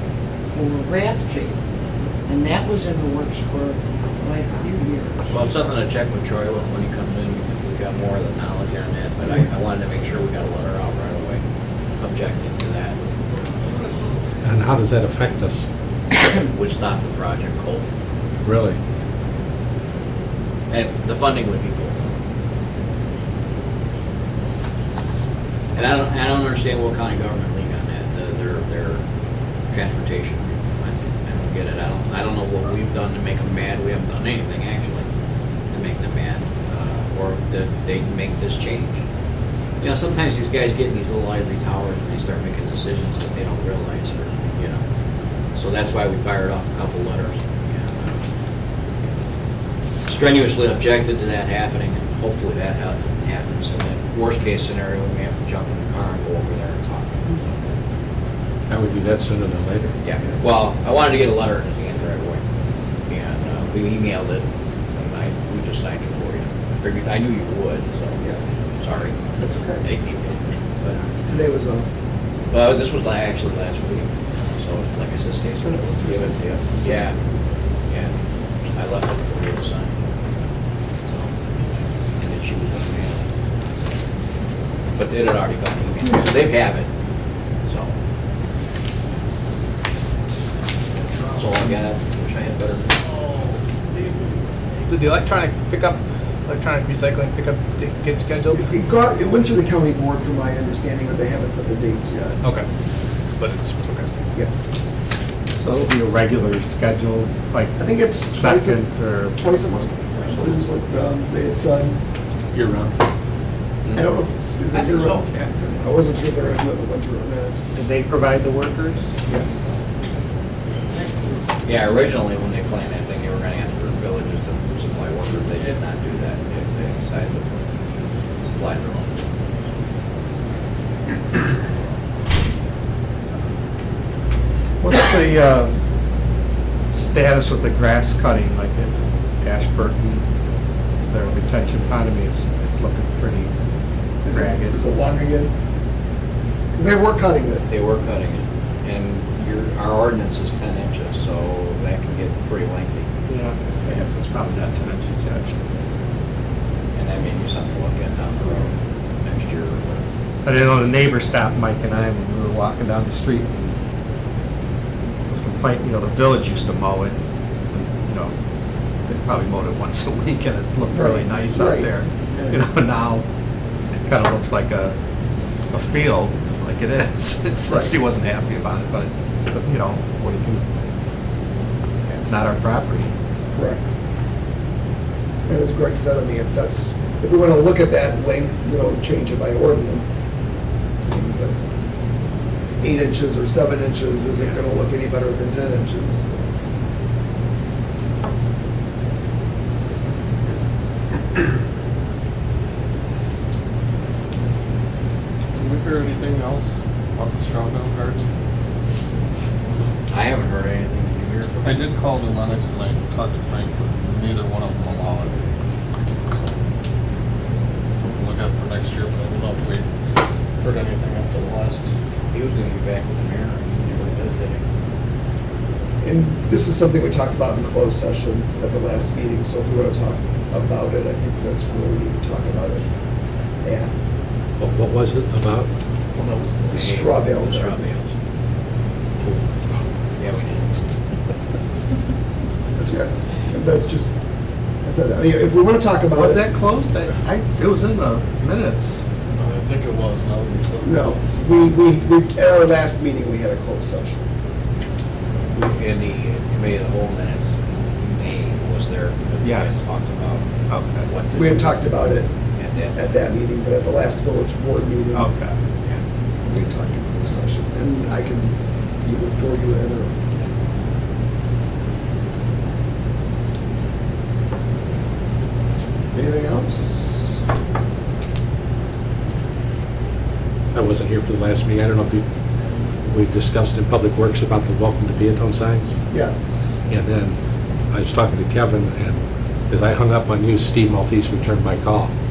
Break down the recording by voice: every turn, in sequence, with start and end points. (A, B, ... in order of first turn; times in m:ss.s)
0:00.5-0:01.5 A
0:02.3-0:05.3 A
0:05.3-0:11.4 B
0:12.0-0:13.0 B
0:14.4-0:15.6 C
0:16.3-0:17.9 B
0:18.4-0:18.8 C
0:20.7-0:22.0 B
0:25.7-0:29.0 B
0:29.7-0:35.1 B
0:35.7-0:39.0 B
0:39.8-0:44.8 B
0:45.6-0:48.2 B
0:50.1-0:57.4 B
0:58.7-0:59.9 C
1:00.0-1:02.4 B
1:03.1-1:04.4 B
1:05.0-1:08.2 B
1:08.8-1:09.2 B
1:09.4-1:09.9 D
1:09.8-1:11.0 B
1:10.9-1:11.9 D
1:12.5-1:17.2 B
1:15.6-1:17.1 D
1:17.9-1:18.1 B
1:18.7-1:20.0 B
1:21.0-1:21.3 B
1:22.2-1:23.3 B
1:25.0-1:26.9 B
1:27.7-1:27.9 B
1:31.3-1:32.9 B
1:34.9-1:38.7 E
1:38.4-1:42.4 D
1:43.4-1:44.2 E
1:44.3-1:44.9 D
1:45.6-1:49.5 F
1:47.8-1:52.0 D
1:50.1-1:50.6 B
1:52.5-1:53.0 C
1:54.0-1:57.6 D
1:54.7-1:55.6 B
1:57.7-1:59.1 F
1:59.2-1:59.7 D
2:01.6-2:07.7 B
2:08.4-2:09.1 B
2:14.8-2:15.8 F
2:16.9-2:20.2 F
2:21.1-2:23.5 F
2:24.2-2:25.5 D
2:24.3-2:24.8 F
2:26.7-2:27.6 D
2:27.7-2:33.1 B
2:33.3-2:35.6 F
2:36.9-2:40.0 B
2:40.4-2:43.5 F
2:45.3-2:47.2 F
2:47.7-2:48.3 F
2:49.1-2:53.2 F
2:50.9-2:52.6 D
2:54.1-2:54.9 F
2:55.7-3:00.6 F
3:02.2-3:03.1 F
3:03.5-3:03.8 D
3:05.5-3:10.3 D
3:11.0-3:11.6 D
3:12.8-3:16.4 D
3:25.5-3:28.3 G
3:30.1-3:31.8 B
3:31.6-3:35.4 G
3:38.0-3:39.9 G
3:40.6-3:41.9 G
3:42.3-3:44.6 B
3:46.0-3:52.8 D
3:53.6-3:53.9 D
3:54.6-3:55.7 C
3:56.2-3:58.1 B
3:56.7-3:57.8 D
4:00.2-4:00.6 B
4:00.2-4:00.9 G
4:02.8-4:04.1 D
4:04.8-4:06.5 D
4:06.1-4:09.0 F
4:09.4-4:11.0 G
4:10.8-4:14.2 D
4:15.5-4:20.5 B
4:19.4-4:19.8 F
4:20.7-4:21.0 F
4:21.0-4:21.8 B
4:21.3-4:22.3 D
4:22.6-4:23.0 B
4:22.9-4:25.3 D
4:25.1-4:25.6 F
4:26.5-4:30.2 D
4:36.1-4:37.3 D
4:40.7-4:42.2 C
4:43.0-4:45.9 C
4:46.1-4:46.7 D
4:46.9-4:47.4 C
4:47.9-4:52.1 C